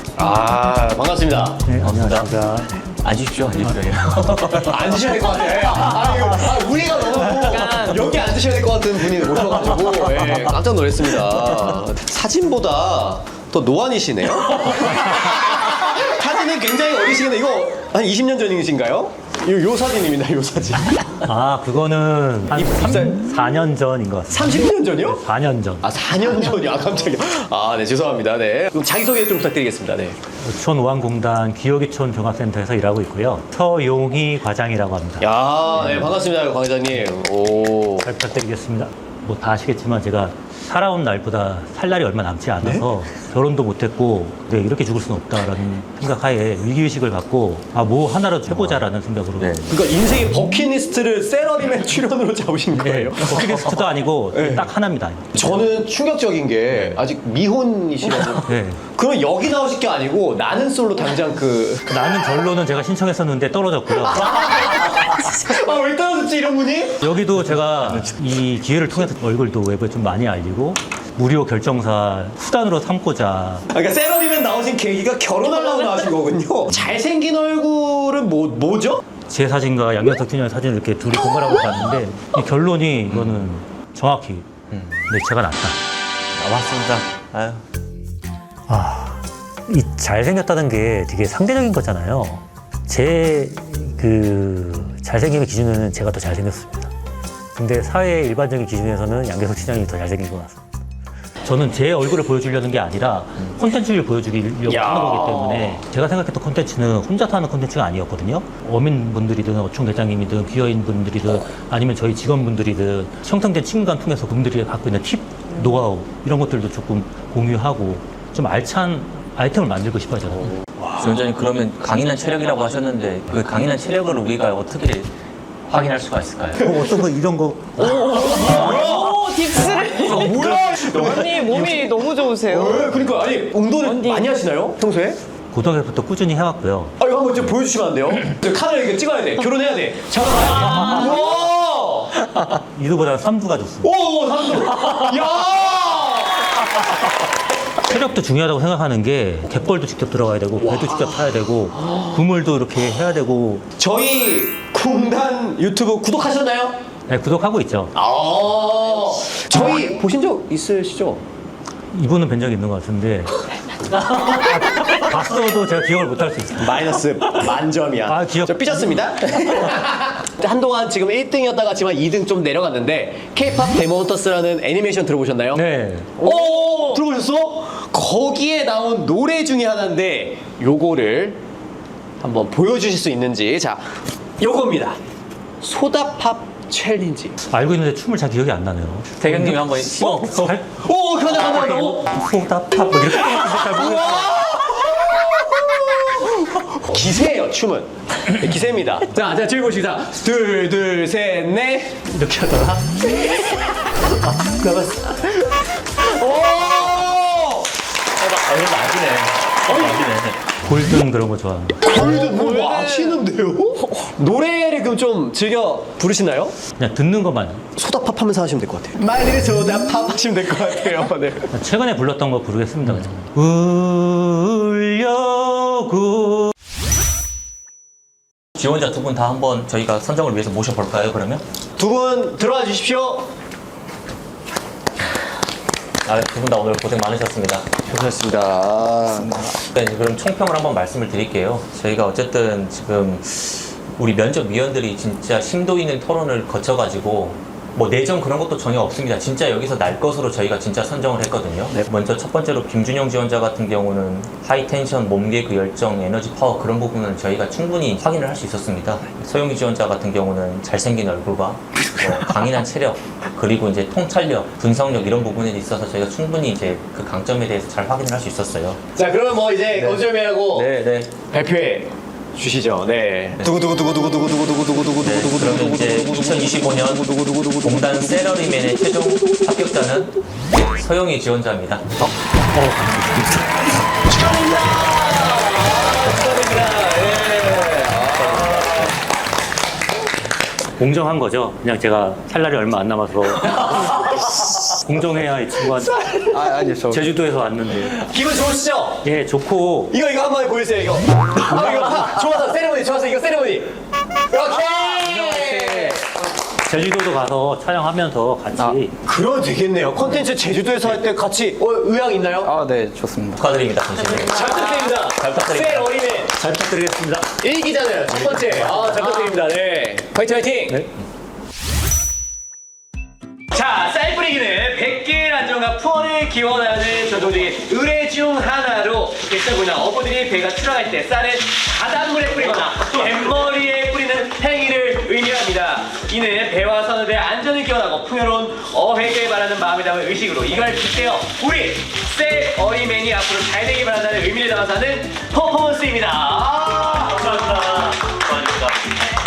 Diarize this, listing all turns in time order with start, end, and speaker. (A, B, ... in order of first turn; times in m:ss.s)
0:00.2-0:01.6 A
0:01.6-0:02.8 B
0:01.8-0:02.3 C
0:02.8-0:05.0 C
0:04.5-0:21.0 A
0:07.4-0:08.0 D
0:21.2-0:25.8 B
0:22.5-0:23.3 A
0:24.3-0:25.2 A
0:25.8-0:30.2 A
0:30.4-0:36.2 B
0:35.2-0:38.1 A
0:38.0-0:49.7 B
0:42.6-0:42.8 A
0:48.5-0:48.8 C
0:49.4-0:49.7 C
0:49.7-0:53.7 A
0:52.7-0:55.6 B
0:53.4-0:53.8 C
0:54.3-0:54.7 A
0:55.3-1:01.9 A
0:58.4-0:58.8 B
1:01.9-1:04.3 B
1:04.0-1:07.1 A
1:07.0-1:13.6 B
1:13.7-1:19.0 A
1:15.6-1:16.0 D
1:19.3-1:24.4 B
1:23.1-1:23.5 C
1:24.7-1:25.0 C
1:25.1-1:25.8 B
1:26.3-1:27.6 C
1:28.7-1:36.9 B
1:37.6-1:40.6 B
1:41.4-2:00.9 B
1:44.7-1:45.8 A
2:01.0-2:05.1 C
2:05.7-2:06.8 C
2:06.6-2:09.3 B
2:07.8-2:13.1 D
2:08.0-2:09.2 A
2:09.9-2:15.2 A
2:10.1-2:11.2 C
2:13.8-2:14.3 D
2:15.5-2:16.9 B
2:17.0-2:22.2 A
2:22.5-2:23.9 B
2:23.8-2:26.8 A
2:27.8-2:33.6 B
2:30.6-2:31.1 A
2:33.8-2:36.8 A
2:37.1-2:37.9 B
2:37.9-2:41.2 A
2:41.9-2:47.5 B
2:46.6-2:55.6 A
2:48.0-2:49.8 B
2:55.5-2:56.2 B
2:56.2-3:01.4 A
3:02.2-3:05.0 A
3:05.6-3:07.4 A
3:07.5-3:14.3 B
3:09.2-3:10.6 C
3:10.7-3:12.1 A
3:13.1-3:22.0 A
3:22.1-3:23.4 B
3:24.2-3:25.1 B
3:26.0-3:27.7 A
3:28.2-3:30.3 C
3:29.5-3:30.1 A
3:30.0-3:31.8 B
3:31.8-3:36.6 A
3:36.8-3:37.6 B
3:37.8-3:41.5 A
3:41.5-3:46.5 B
3:48.6-3:51.4 C
3:51.8-3:53.3 A
3:56.0-3:57.7 C
3:57.8-3:59.4 A
3:59.1-3:59.6 E
3:59.6-4:28.8 C
4:21.9-4:22.3 A
4:28.9-4:37.8 A
4:29.8-4:31.1 C
4:35.0-4:41.8 C
4:42.5-4:43.5 B
4:44.1-4:48.9 A
4:48.3-4:48.9 C
4:50.8-4:58.0 B
4:56.3-4:57.1 E
4:58.0-4:59.1 A
4:59.0-4:59.9 B
4:59.9-5:06.1 A
5:01.5-5:02.0 B
5:05.6-5:06.0 E
5:06.6-5:09.0 B
5:09.0-5:12.5 A
5:12.4-5:13.4 E
5:13.3-5:16.0 C
5:14.2-5:16.4 A
5:16.4-5:17.3 B
5:17.4-5:20.9 A
5:23.5-5:47.6 A